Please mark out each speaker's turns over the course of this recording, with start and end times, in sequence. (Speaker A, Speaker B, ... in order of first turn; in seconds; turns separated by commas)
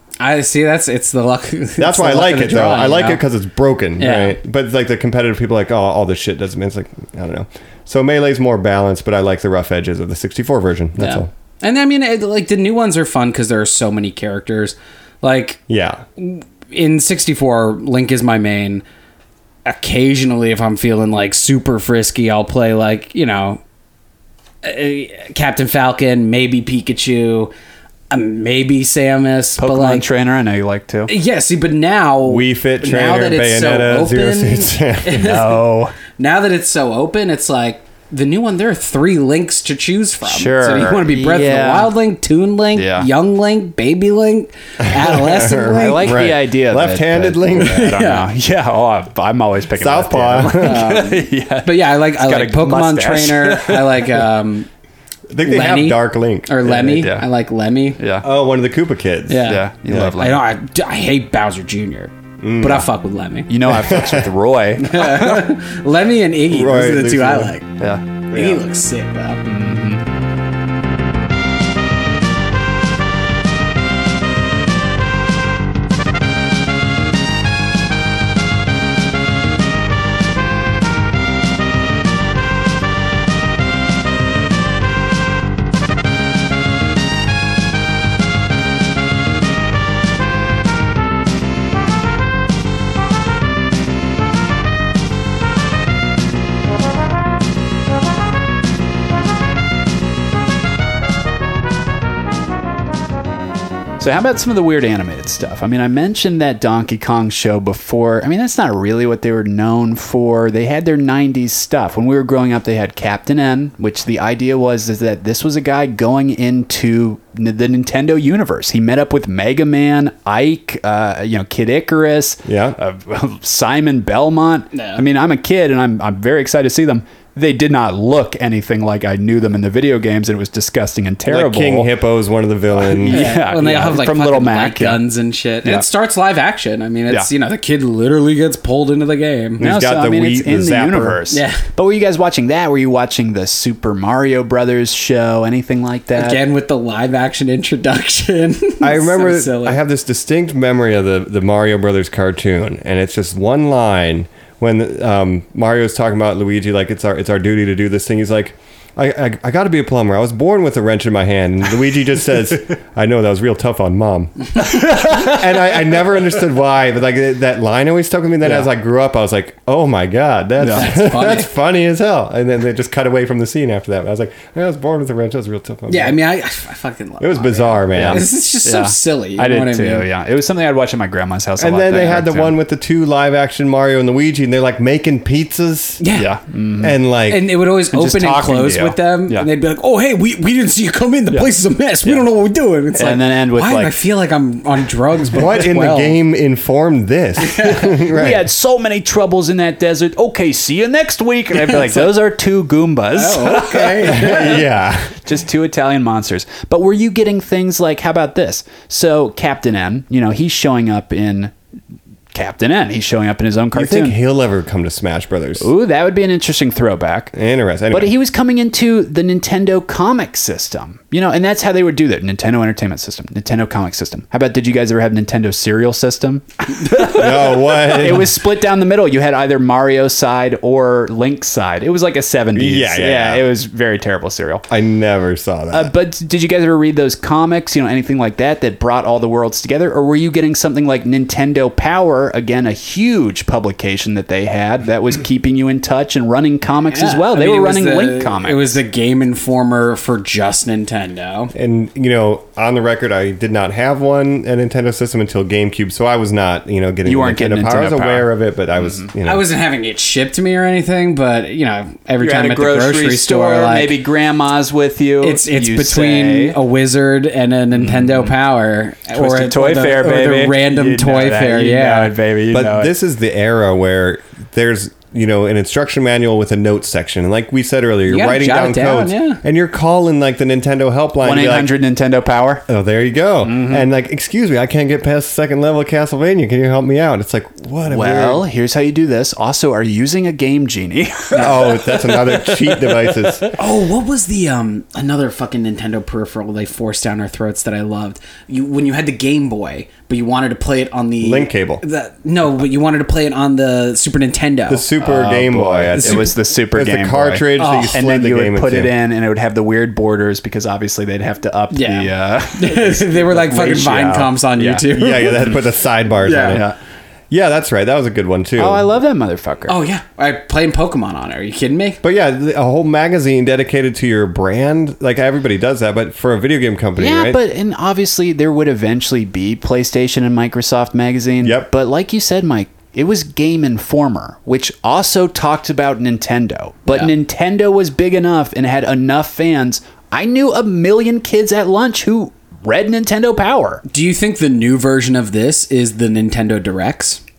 Speaker A: 0.2-3.2, Speaker B: 1.8-11.3, Speaker A: 4.0-4.4, Speaker A: 11.0-15.6, Speaker B: 15.7-16.0, Speaker A: 16.2-18.8, Speaker A: 19.6-23.6, Speaker A: 24.6-27.5, Speaker A: 28.1-30.1, Speaker C: 29.6-31.1, Speaker A: 31.1-46.2, Speaker B: 32.2-35.4, Speaker C: 35.2-36.0, Speaker C: 40.2-41.9, Speaker C: 42.7-43.1, Speaker B: 44.8-47.9, Speaker C: 45.8-54.2, Speaker A: 47.6-48.3, Speaker B: 49.8-50.9, Speaker A: 50.6-54.7, Speaker B: 55.3-56.5, Speaker A: 55.4-58.0, Speaker C: 56.6-57.2, Speaker C: 58.0-58.2, Speaker B: 58.2-60.1, Speaker A: 59.3-63.5, Speaker C: 59.5-60.4, Speaker B: 62.4-62.9, Speaker C: 63.5-65.5, Speaker B: 63.7-64.3, Speaker A: 64.8-67.7, Speaker B: 66.5-67.5, Speaker B: 68.3-68.6, Speaker A: 68.3-69.4, Speaker C: 69.4-70.0, Speaker C: 104.0-131.9, Speaker B: 122.4-122.8, Speaker A: 124.7-125.0, Speaker B: 131.3-133.3, Speaker C: 132.7-135.0, Speaker A: 133.1-139.6, Speaker B: 139.6-141.2, Speaker C: 139.6-146.4, Speaker A: 141.3-141.6, Speaker A: 146.1-149.8, Speaker B: 148.8-176.2, Speaker C: 164.6-165.3, Speaker C: 168.4-168.7, Speaker C: 170.6-170.8, Speaker A: 170.7-171.5, Speaker A: 175.9-180.1, Speaker B: 177.2-178.2, Speaker C: 177.9-182.6, Speaker B: 181.6-186.0, Speaker A: 186.0-186.3, Speaker C: 186.1-187.0, Speaker B: 186.8-187.4, Speaker A: 187.3-196.2, Speaker C: 187.9-189.5, Speaker C: 192.9-193.9, Speaker B: 195.3-198.4, Speaker A: 197.5-197.9, Speaker C: 197.7-204.6, Speaker A: 201.6-202.1, Speaker A: 203.1-204.6, Speaker B: 204.1-205.2, Speaker C: 205.2-211.5, Speaker C: 212.3-214.2, Speaker B: 213.7-215.7, Speaker C: 215.6-217.3, Speaker B: 217.3-218.1, Speaker C: 217.9-234.7, Speaker B: 227.0-228.4, Speaker B: 232.5-233.5, Speaker B: 234.7-235.9, Speaker C: 235.7-248.7, Speaker A: 246.9-251.5, Speaker B: 251.6-259.4, Speaker C: 257.1-258.3, Speaker C: 258.8-259.1, Speaker A: 259.2-264.0, Speaker C: 262.2-266.6, Speaker A: 265.2-272.1, Speaker C: 267.8-268.3, Speaker C: 269.1-272.9, Speaker B: 272.5-281.7, Speaker A: 278.1-279.4, Speaker C: 281.2-282.6, Speaker B: 282.7-288.4, Speaker C: 283.4-283.9, Speaker C: 287.9-293.1, Speaker B: 291.4-293.5, Speaker A: 293.6-304.9, Speaker B: 301.2-301.8, Speaker B: 304.7-308.9, Speaker C: 305.0-315.6, Speaker A: 305.9-306.4, Speaker A: 307.6-308.0, Speaker A: 311.7-315.5, Speaker B: 314.9-316.7, Speaker A: 316.2-316.6, Speaker B: 317.3-318.9, Speaker C: 318.6-319.8, Speaker A: 319.7-322.0, Speaker B: 322.0-327.4, Speaker C: 327.0-343.8, Speaker B: 331.4-331.7, Speaker A: 343.9-347.2